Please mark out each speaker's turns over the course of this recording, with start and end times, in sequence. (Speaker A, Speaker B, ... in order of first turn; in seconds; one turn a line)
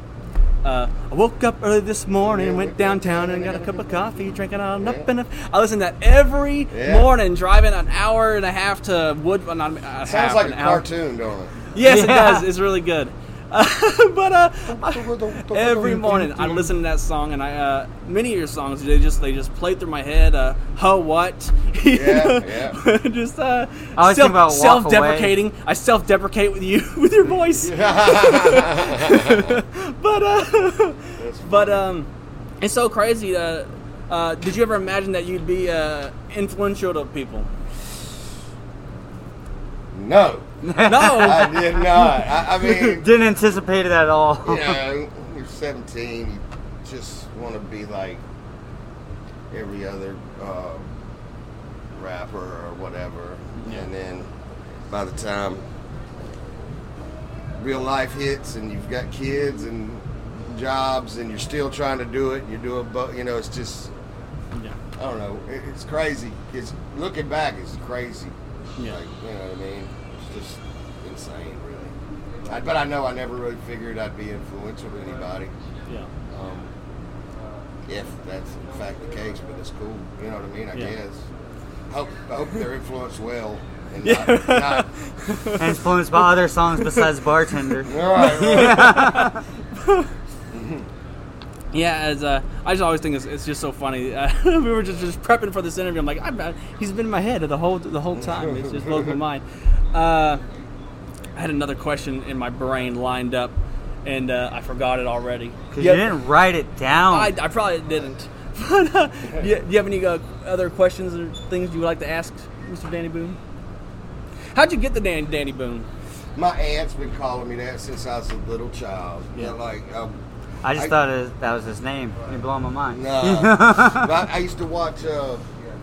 Speaker A: 0.7-10.8
Speaker B: 2.2-3.9
Speaker B: 4.8-5.1
Speaker B: 6.7-7.1
Speaker B: 10.1-11.6
Speaker A: 11.8-32.1
Speaker C: 11.8-12.4
Speaker B: 14.7-16.7
Speaker B: 21.9-22.8
Speaker C: 24.0-25.3
Speaker B: 27.6-29.5
Speaker B: 31.2-31.9
Speaker A: 32.6-37.5
Speaker B: 39.9-40.5
Speaker C: 40.6-42.1
Speaker A: 40.9-41.5
Speaker B: 41.2-43.1
Speaker C: 42.8-44.8
Speaker B: 44.4-48.2
Speaker B: 49.5-50.9
Speaker B: 51.9-54.3
Speaker B: 54.9-55.6
Speaker B: 57.6-63.9
Speaker B: 65.0-71.9
Speaker B: 72.5-75.5
Speaker B: 76.3-76.7
Speaker B: 77.9-81.3
Speaker B: 81.9-84.9
Speaker A: 84.0-85.6
Speaker C: 85.6-89.4
Speaker B: 87.8-89.1
Speaker A: 88.4-89.2
Speaker B: 90.5-90.9
Speaker A: 91.7-100.4
Speaker B: 98.1-99.2
Speaker A: 101.4-103.5
Speaker A: 104.0-106.0
Speaker C: 105.7-107.3
Speaker A: 107.1-113.4
Speaker A: 114.5-115.9
Speaker B: 116.4-120.2
Speaker C: 120.6-124.1
Speaker B: 122.9-125.5